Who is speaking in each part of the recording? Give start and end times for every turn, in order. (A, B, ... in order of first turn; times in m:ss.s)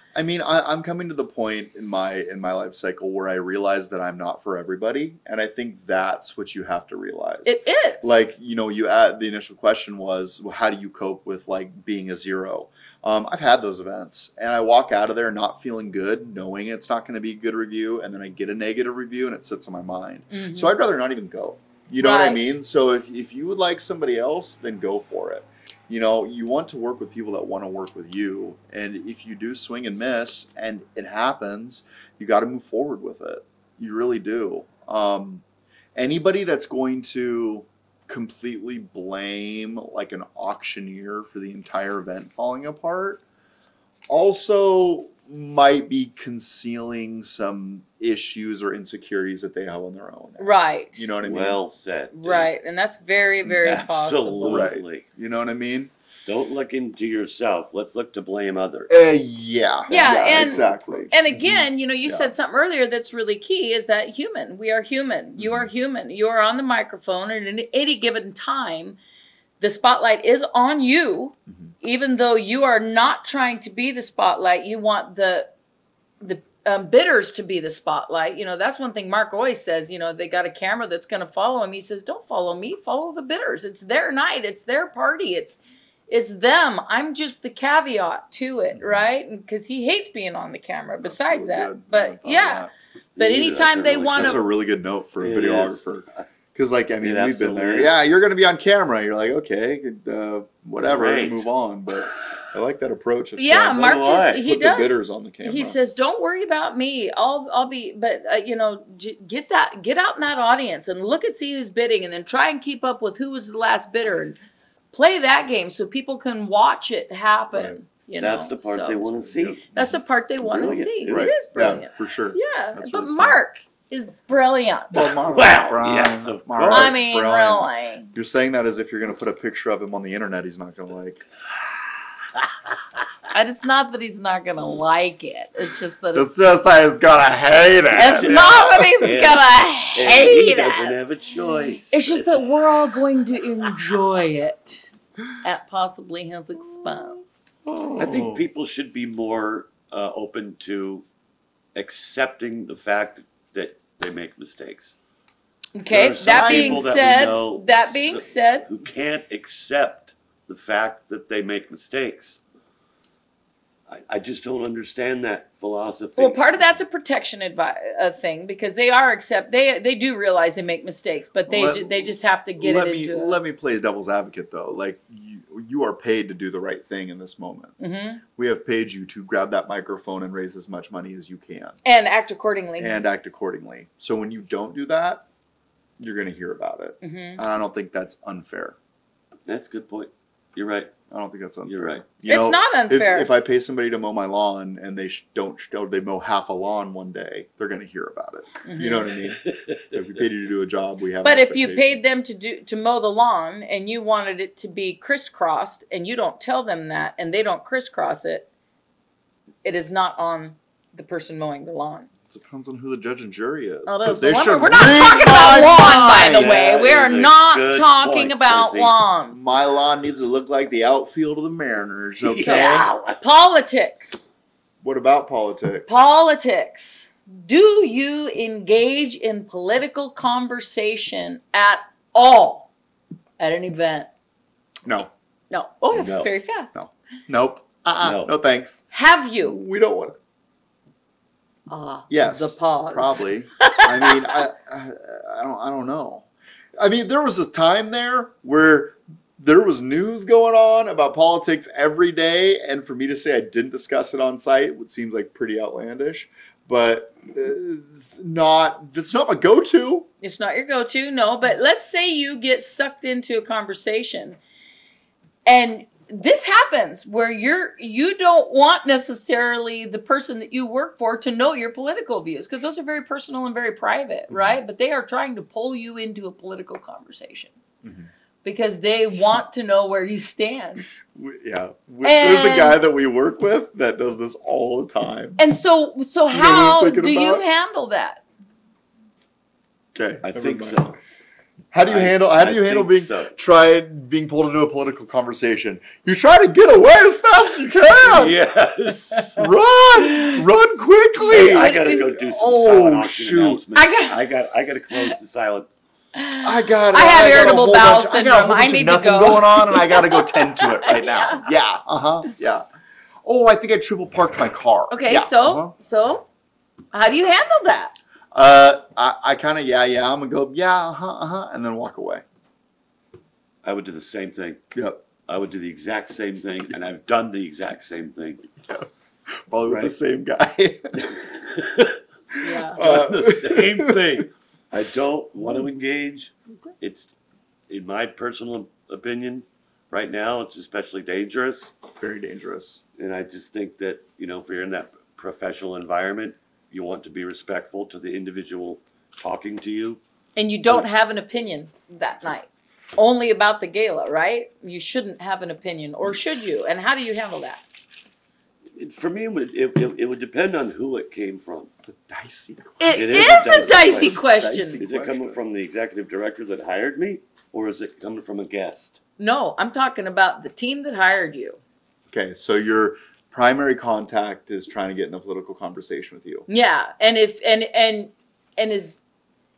0:00.1-0:35.4 A
0:07.4-0:08.2 B
0:20.3-0:20.8 B
0:22.0-0:22.5 B
0:36.0-0:43.2 A
0:44.1-0:51.6 A
0:50.4-0:51.1 B
0:51.2-0:52.5 C
0:52.1-0:54.7 B
0:53.6-0:55.0 C
0:54.4-0:55.9 A
0:56.2-0:58.9 C
0:58.9-1:02.3 A
0:59.9-1:09.0 B
1:05.4-1:05.7 A
1:09.6-1:15.5 B
1:16.2-1:34.4 B
1:31.0-1:32.7 A
1:33.2-1:34.4 C
1:34.1-1:45.8 A
1:35.2-1:36.2 C
1:37.0-1:37.9 C
1:40.8-1:41.5 C
1:43.4-1:54.4 B
1:43.6-1:44.5 C
1:54.9-1:59.1 B
1:57.5-1:57.8 A
1:58.2-1:59.7 C
1:59.4-2:00.0 A
1:59.7-2:05.0 B
2:00.4-2:01.3 C
2:01.1-2:03.4 A
2:04.9-2:11.2 A
2:05.0-2:07.0 C
2:06.7-2:08.1 B
2:13.3-2:16.3 B
2:16.1-2:19.0 A
2:18.0-2:20.9 B
2:19.0-2:22.5 C
2:21.9-2:24.9 B
2:25.4-2:27.2 B
2:27.6-2:28.4 A
2:28.0-2:31.0 C
2:31.7-2:34.9 C
2:35.8-2:38.7 B
2:35.9-2:42.4 C
2:36.3-2:36.9 A
2:43.9-2:46.6 C
2:46.2-2:53.4 B
2:51.5-2:57.7 A
2:57.8-2:58.2 B
2:58.4-3:01.8 A
3:01.8-3:03.0 B
3:02.8-3:05.2 A
3:06.0-3:08.8 A
3:07.0-3:07.4 B
3:09.4-3:10.9 C
3:11.1-3:22.0 A
3:11.6-3:12.0 C
3:12.2-3:13.3 B
3:18.6-3:19.1 B
3:19.4-3:19.8 C
3:21.2-3:28.5 B
3:29.6-3:32.1 B
3:32.3-3:36.8 A
3:33.9-3:39.4 B
3:35.2-3:39.0 C
3:39.3-3:42.9 A
3:42.2-3:43.0 C
3:42.4-3:44.3 B
3:44.8-3:46.0 A
3:45.9-3:52.7 B
3:53.4-3:54.1 B
3:54.9-3:55.1 A
3:55.5-3:56.7 B
3:55.9-3:56.3 C
3:56.7-3:58.8 A
3:58.0-3:58.3 C
3:58.9-3:59.6 B
3:59.4-4:00.2 A
4:01.7-4:04.4 B
4:02.1-4:06.2 A
4:06.8-4:20.1 A
4:20.2-4:24.4 B
4:25.4-4:37.5 B
4:34.3-4:34.6 A
4:37.8-4:38.1 A
4:38.4-4:40.9 B
4:41.1-4:45.4 A
4:42.0-4:42.8 B
4:45.4-4:48.2 B
4:46.3-4:47.4 A
4:49.9-4:50.9 A
4:50.2-4:51.0 C
4:51.7-4:58.4 A
4:51.8-4:53.3 C
4:58.1-4:59.4 C
4:59.4-5:03.6 A
5:00.1-5:00.4 B
5:01.2-5:02.2 B
5:01.3-5:05.7 C
5:03.7-5:04.2 B
5:04.9-5:05.2 B
5:06.1-5:11.4 B
5:06.4-5:12.6 A
5:13.2-5:15.7 A
5:14.9-5:16.2 B
5:16.9-5:17.9 B
5:18.3-5:22.2 A
5:23.6-5:24.6 C
5:24.7-5:25.0 A
5:25.3-5:28.4 C
5:29.4-5:31.0 A
5:29.7-5:29.9 C
5:31.0-5:32.0 C
5:32.4-5:34.0 A
5:32.4-5:32.8 B
5:32.8-5:37.1 C
5:37.7-5:41.7 C
5:42.0-5:42.8 A
5:43.0-5:50.0 C
5:50.4-5:57.6 B
5:58.8-6:01.7 C
6:01.8-6:05.4 A
6:02.8-6:04.8 B
6:02.9-6:04.2 C
6:04.8-6:09.0 C
6:09.2-6:11.6 B
6:12.1-6:16.5 A
6:16.5-6:19.0 B